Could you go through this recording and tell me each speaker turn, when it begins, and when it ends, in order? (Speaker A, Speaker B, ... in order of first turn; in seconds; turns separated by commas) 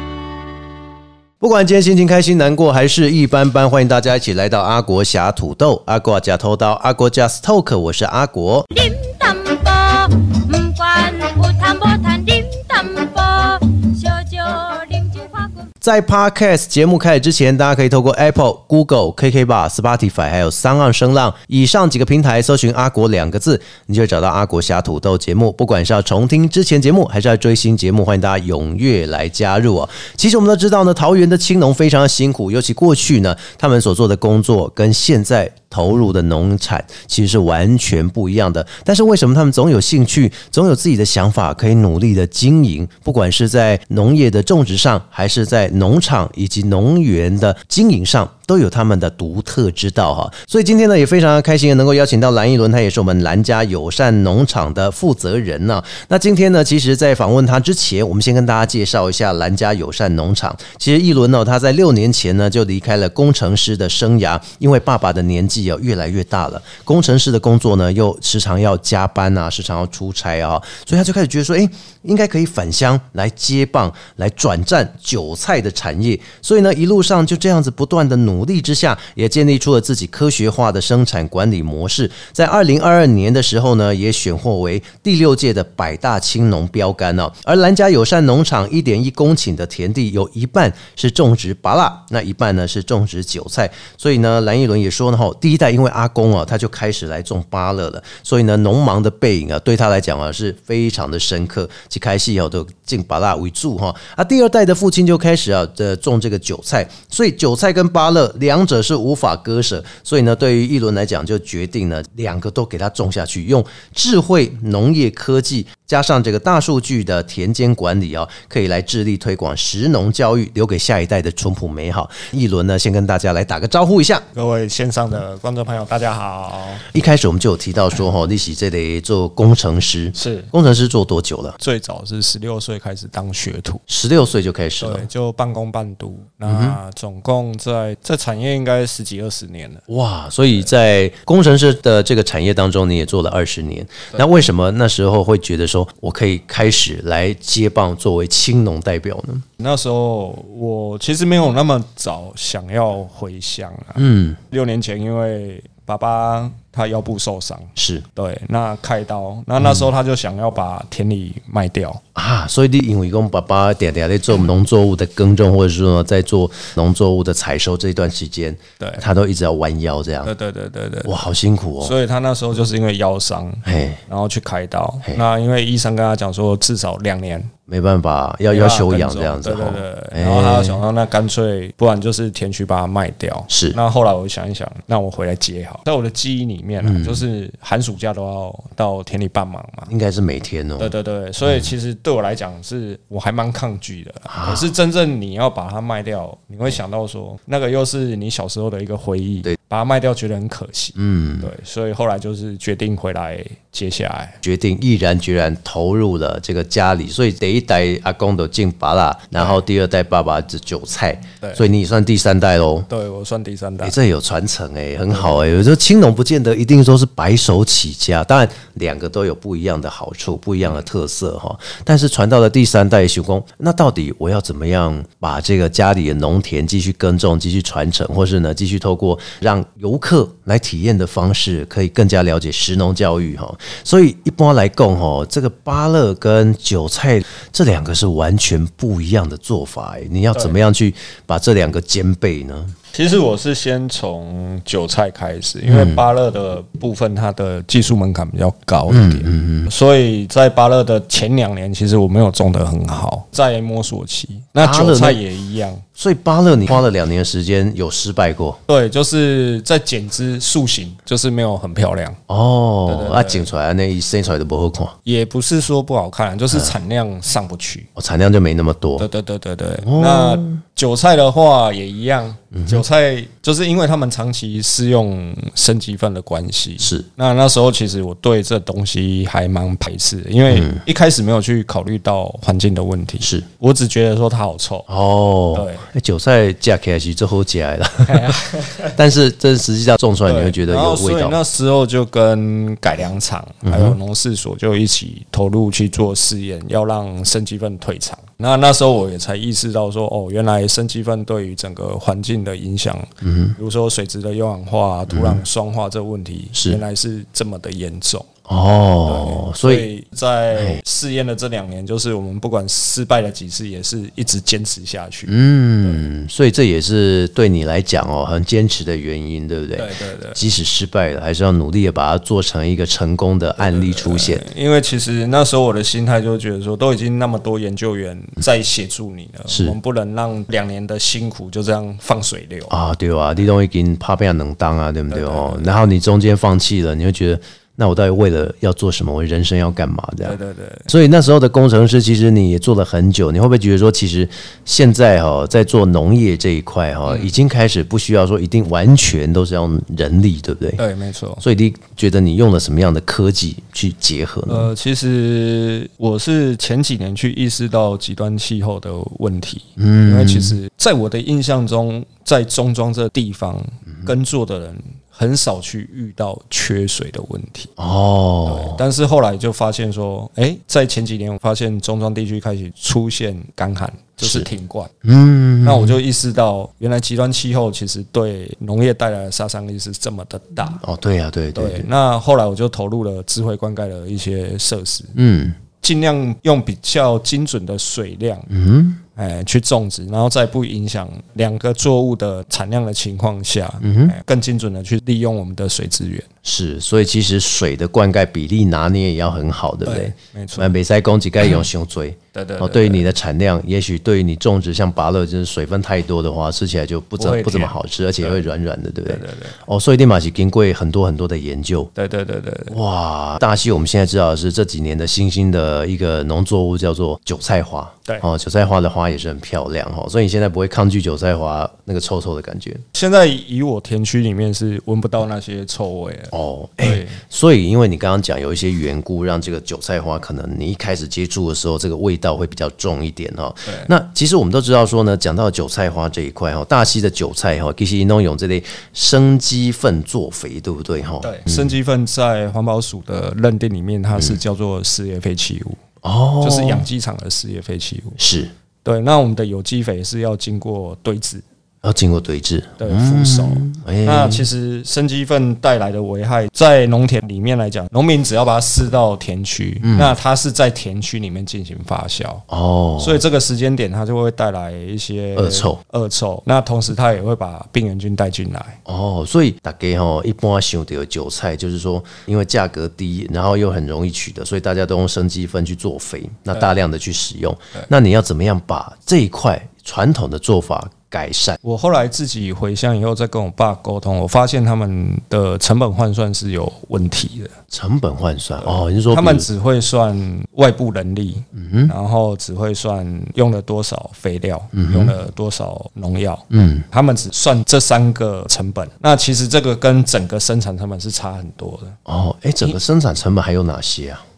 Speaker A: 1.4-8.7, Speaker B: 8.7-15.7, Speaker A: 15.8-124.2, Speaker C: 124.3-126.8, Speaker A: 126.9-131.6, Speaker C: 130.1-130.5, Speaker C: 131.6-133.8, Speaker A: 133.9-135.1, Speaker C: 134.8-139.8, Speaker A: 136.4-136.8, Speaker A: 139.9-149.4, Speaker C: 149.6-162.0, Speaker A: 153.9-154.4, Speaker A: 157.8-158.0, Speaker A: 159.6-159.9, Speaker A: 162.1-170.3, Speaker C: 168.8-169.0, Speaker C: 170.2-171.2, Speaker A: 171.0-171.9, Speaker C: 171.8-177.5, Speaker A: 173.6-174.0, Speaker A: 177.7-180.8, Speaker C: 178.5-189.9, Speaker A: 183.5-183.8, Speaker A: 186.8-187.2, Speaker A: 189.9-190.9, Speaker C: 190.8-204.4, Speaker A: 194.3-194.7, Speaker A: 200.9-201.5, Speaker A: 204.4-212.9, Speaker C: 212.9-213.9, Speaker A: 213.8-242.7, Speaker C: 215.1-215.4, Speaker C: 242.9-255.8, Speaker A: 245.6-246.0, Speaker A: 248.9-249.7, Speaker A: 254.6-255.2, Speaker A: 256.0-258.6, Speaker C: 258.7-262.2, Speaker A: 262.3-264.9, Speaker C: 262.9-263.5, Speaker C: 265.0-267.9, Speaker A: 267.9-269.1, Speaker C: 269.0-284.9, Speaker A: 269.8-270.6, Speaker A: 272.5-272.8, Speaker A: 276.8-277.1, Speaker A: 280.5-280.8, Speaker A: 284.9-288.4, Speaker C: 285.5-285.9, Speaker C: 288.1-288.9, Speaker A: 288.9-291.4, Speaker C: 290.2-308.3, Speaker A: 293.6-294.0, Speaker A: 303.2-303.6, Speaker A: 305.1-305.4, Speaker A: 306.5-306.8, Speaker A: 308.5-309.9, Speaker C: 309.1-316.1, Speaker A: 310.5-310.8, Speaker A: 315.3-324.4, Speaker C: 319.8-320.4, Speaker C: 323.6-332.7, Speaker A: 329.5-329.8, Speaker A: 332.7-340.4, Speaker C: 335.1-335.7, Speaker C: 340.2-340.9, Speaker A: 340.9-350.8, Speaker C: 347.1-347.3, Speaker C: 350.8-351.4, Speaker A: 351.4-354.7, Speaker C: 354.5-367.7, Speaker A: 359.8-360.6, Speaker A: 367.8-368.8, Speaker C: 368.4-374.9, Speaker A: 374.2-374.5, Speaker A: 375.0-376.0, Speaker C: 375.6-380.8, Speaker A: 380.8-381.9, Speaker C: 381.5-385.1, Speaker A: 385.1-385.6, Speaker C: 385.8-388.5, Speaker A: 388.5-389.0, Speaker C: 389.1-396.3, Speaker A: 393.8-394.1, Speaker A: 396.4-411.9, Speaker C: 399.8-400.7, Speaker C: 402.3-403.1, Speaker C: 407.2-408.4, Speaker C: 409.1-409.6, Speaker C: 411.9-412.8, Speaker A: 412.7-422.8, Speaker C: 422.9-427.2, Speaker A: 426.3-441.7, Speaker C: 433.6-433.9, Speaker C: 441.2-445.8, Speaker A: 446.0-446.9, Speaker C: 446.4-448.2, Speaker A: 448.2-448.5, Speaker C: 448.8-451.4, Speaker A: 451.8-454.5, Speaker C: 452.8-462.4, Speaker A: 459.8-460.1, Speaker A: 462.5-463.2, Speaker C: 463.0-468.8, Speaker A: 465.4-465.8, Speaker A: 468.9-481.6, Speaker C: 481.6-487.5, Speaker A: 487.7-489.4, Speaker C: 488.6-502.0, Speaker A: 491.5-491.9, Speaker A: 494.7-495.1, Speaker A: 496.5-496.8, Speaker A: 502.1-504.2